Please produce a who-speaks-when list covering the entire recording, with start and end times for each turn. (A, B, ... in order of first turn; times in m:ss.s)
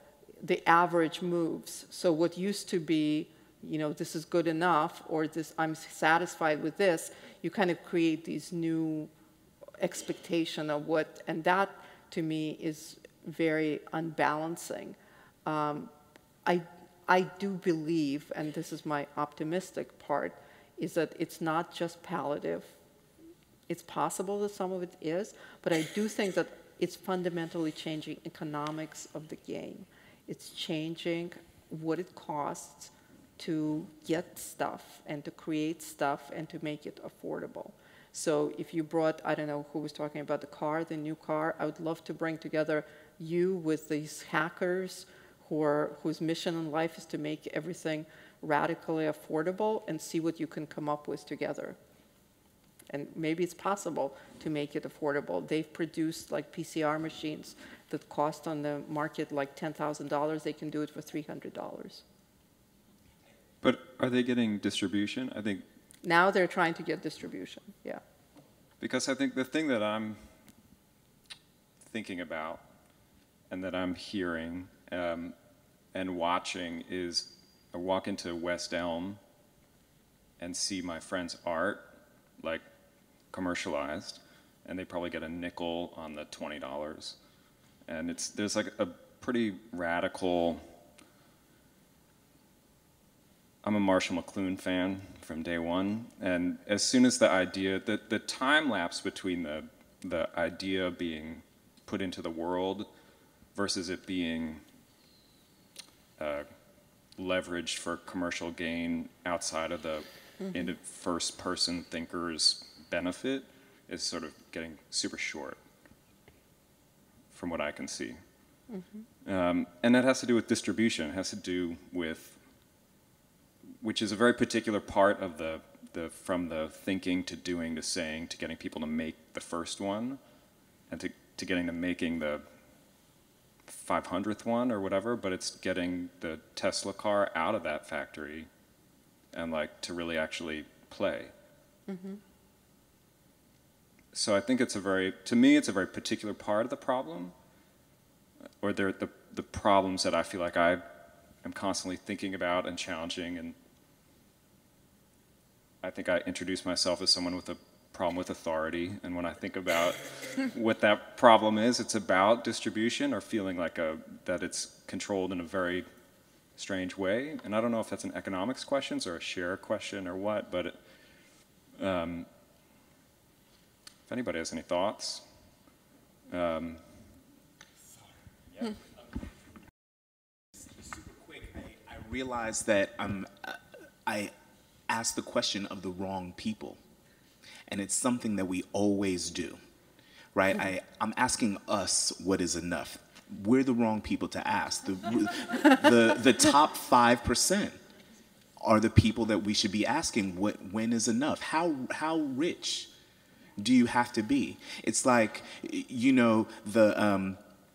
0:00.4-0:09.1 A
0:09.8-0:15.9 A
0:16.4-0:22.8 A
0:23.7-0:51.8 A
0:52.9-1:02.0 A
1:03.6-1:05.6 B
1:06.0-1:08.0 A
1:08.8-1:10.3 B
1:11.8-1:12.6 B
1:13.5-1:15.4 B
1:15.9-1:19.2 B
1:20.4-1:21.9 B
1:22.4-1:22.6 B
1:23.3-1:27.2 B
1:27.9-1:30.6 B
1:33.6-1:42.9 B
1:43.6-1:44.6 B
1:46.2-1:46.5 B
1:47.2-1:55.6 B
1:57.3-1:58.2 B
1:58.7-1:59.0 A
1:59.2-2:02.4 B
2:03.8-2:10.2 B
2:10.9-2:12.4 B
2:13.7-2:18.5 B
2:19.3-2:21.3 B
2:21.9-2:22.2 A
2:24.1-2:27.3 B
2:28.6-2:30.8 B
2:31.4-2:33.6 B
2:35.8-2:45.9 B
2:46.6-2:50.8 B
2:51.8-2:52.3 B
2:54.1-2:55.2 B
2:56.3-2:56.9 B
3:01.4-3:04.3 C
3:04.9-3:06.8 C
3:07.7-3:09.6 C
3:10.3-3:17.8 C
3:18.6-3:22.9 C
3:23.6-3:27.4 C